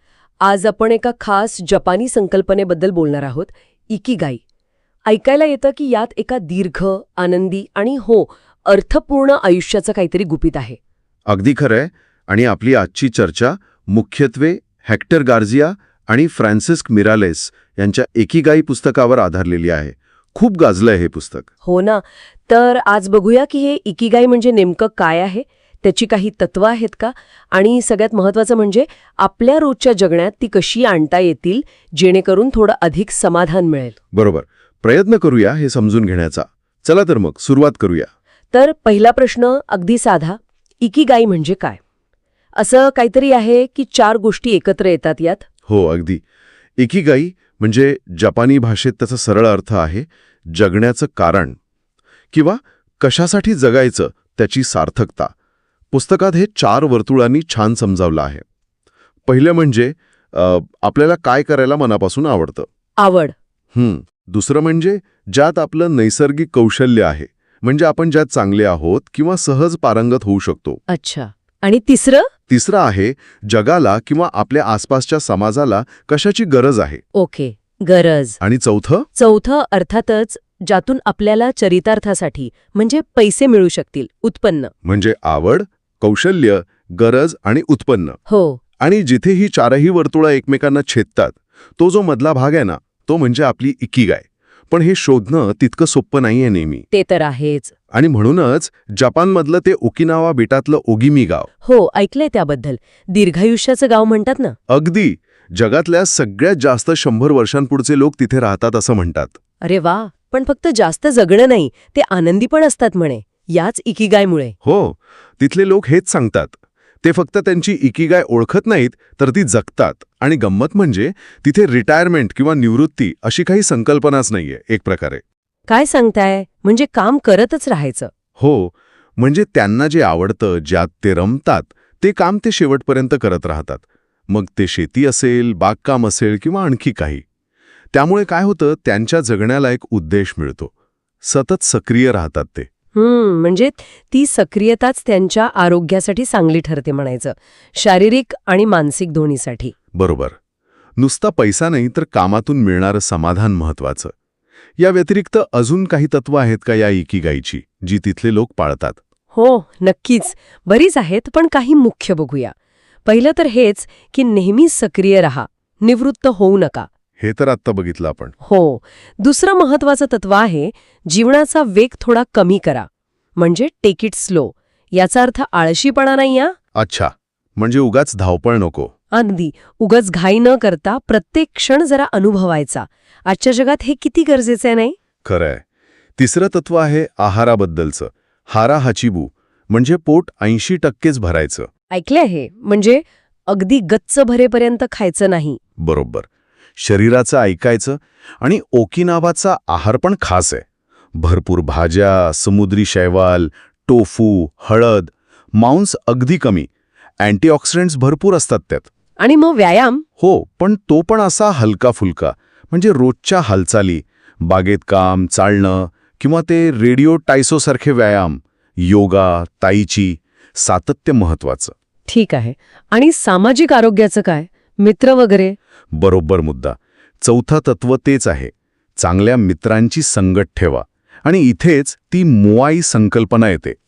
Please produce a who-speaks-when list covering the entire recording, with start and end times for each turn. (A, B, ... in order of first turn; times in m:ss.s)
0:00.4-0:04.4 A
0:05.1-0:10.8 A
0:11.3-0:21.5 B
0:21.6-0:34.0 A
0:34.1-0:38.1 B
0:38.5-0:41.8 A
0:42.6-0:45.4 A
0:45.7-0:46.2 B
0:46.8-0:51.6 B
0:52.3-0:55.3 B
0:55.9-0:58.4 B
0:59.3-1:02.7 B
1:03.0-1:03.4 A
1:03.7-1:10.8 B
1:10.9-1:12.3 A
1:12.5-1:17.0 B
1:17.2-1:18.4 A
1:18.4-1:19.1 B
1:19.2-1:24.7 A
1:24.8-1:28.2 B
1:28.3-1:28.6 A
1:28.8-1:36.9 B
1:36.9-1:37.7 A
1:37.9-1:41.5 B
1:41.6-1:44.6 A
1:44.7-1:49.4 B
1:49.6-1:54.6 A
1:54.6-2:05.2 B
2:05.7-2:08.1 A
2:08.4-2:17.2 B
2:17.9-2:20.7 B
2:21.2-2:22.7 B
2:23.0-2:29.7 A
2:29.9-2:30.4 B
2:31.0-2:34.1 B
2:34.8-2:39.0 B
2:39.3-2:42.5 A
2:43.0-2:46.9 A
2:47.2-2:48.3 B
2:48.4-2:56.6 A
2:56.8-2:58.9 B
2:59.1-3:05.0 A
3:05.2-3:05.6 B
3:06.2-3:11.7 B
3:11.9-3:15.6 A
3:15.8-3:20.6 B
3:21.2-3:26.7 B
3:27.2-3:28.9 B
3:29.2-3:30.0 A
3:30.2-3:41.7 B
3:42.1-3:45.6 A
3:45.9-3:53.8 B